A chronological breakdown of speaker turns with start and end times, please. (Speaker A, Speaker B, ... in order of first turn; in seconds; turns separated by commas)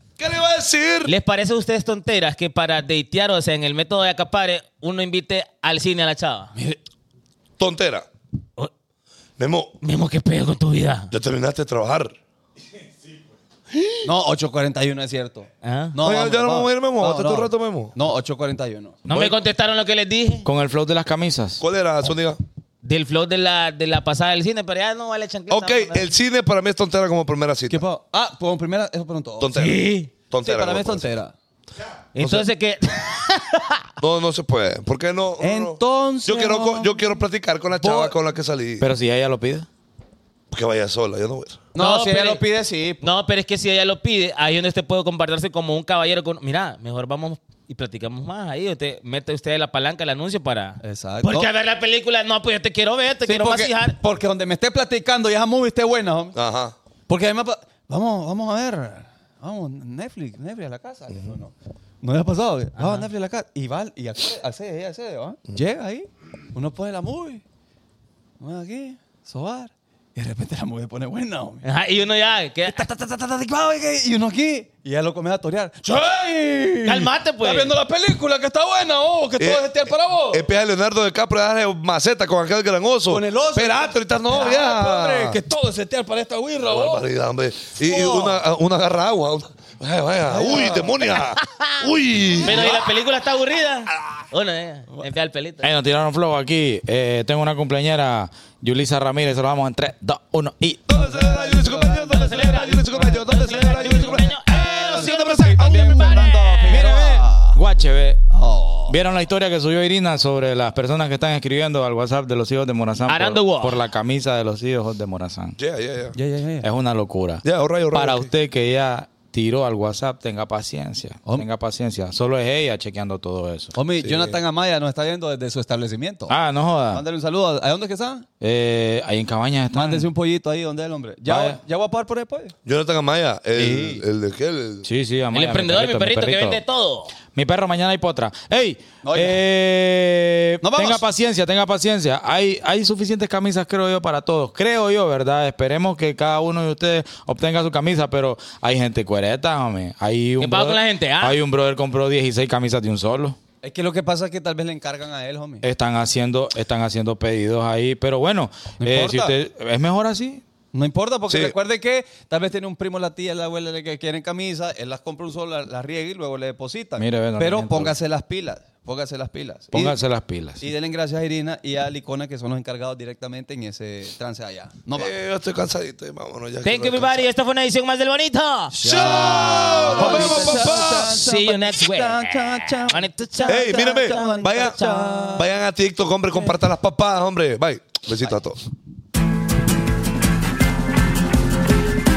Speaker A: 0.2-1.1, Speaker B: 1.1-6.5, Speaker C: 6.5-6.8, Speaker A: 7.6-8.1, Speaker A: 9.4-9.7, Speaker B: 9.8-11.1, Speaker A: 11.1-12.2, Speaker A: 13.7-14.1, Speaker C: 14.0-19.0, Speaker B: 15.6-15.9, Speaker A: 16.0-17.9, Speaker D: 19.1-19.3, Speaker B: 19.1-20.5, Speaker D: 20.4-21.6, Speaker A: 21.6-22.4, Speaker B: 22.8-26.1, Speaker A: 25.5-27.8, Speaker C: 27.7-29.7, Speaker A: 29.4-29.8, Speaker B: 29.5-30.1, Speaker A: 30.3-31.1, Speaker C: 30.4-31.3, Speaker B: 32.1-33.8, Speaker A: 32.2-32.5, Speaker A: 34.0-38.9, Speaker C: 35.4-37.1, Speaker C: 37.8-38.1, Speaker D: 38.8-39.7, Speaker A: 40.5-41.6, Speaker C: 41.7-43.0, Speaker B: 41.8-42.4, Speaker B: 43.0-54.0, Speaker C: 50.8-51.5, Speaker C: 53.2-56.4, Speaker A: 56.3-56.7, Speaker C: 57.1-67.4, Speaker B: 62.8-63.1, Speaker C: 68.4-71.7, Speaker B: 71.6-72.9, Speaker C: 72.7-80.5, Speaker B: 76.8-77.7, Speaker A: 79.4-85.4, Speaker C: 83.1-87.0, Speaker A: 86.7-92.8, Speaker C: 87.8-88.4, Speaker C: 90.3-91.0, Speaker B: 92.4-95.7, Speaker D: 95.6-101.0, Speaker A: 100.9-106.3, Speaker C: 100.9-104.2, Speaker B: 102.1-107.2, Speaker C: 104.9-107.6, Speaker D: 105.6-108.2, Speaker C: 108.3-109.0, Speaker D: 108.9-115.5, Speaker B: 113.1-113.8, Speaker A: 115.6-116.2, Speaker C: 116.1-116.7, Speaker D: 116.6-123.7, Speaker A: 117.4-118.3, Speaker C: 123.7-126.3, Speaker A: 124.0-124.4, Speaker D: 126.3-127.0, Speaker C: 126.9-128.2, Speaker D: 128.4-130.1, Speaker C: 129.7-132.5, Speaker D: 131.3-131.6, Speaker A: 132.6-134.9, Speaker C: 133.6-134.0, Speaker D: 134.8-136.6, Speaker B: 135.3-137.1, Speaker D: 137.3-153.4, Speaker C: 139.0-139.4, Speaker C: 140.6-141.0, Speaker B: 150.4-151.4, Speaker C: 153.6-155.6, Speaker D: 155.6-160.4, Speaker C: 158.8-159.3, Speaker C: 160.7-170.0, Speaker A: 161.3-161.5, Speaker D: 167.0-167.9, Speaker D: 169.7-170.6, Speaker C: 170.6-175.1, Speaker A: 174.9-177.3, Speaker B: 176.6-178.8, Speaker C: 178.7-185.4, Speaker A: 178.8-181.2, Speaker B: 179.9-185.3, Speaker A: 183.5-188.6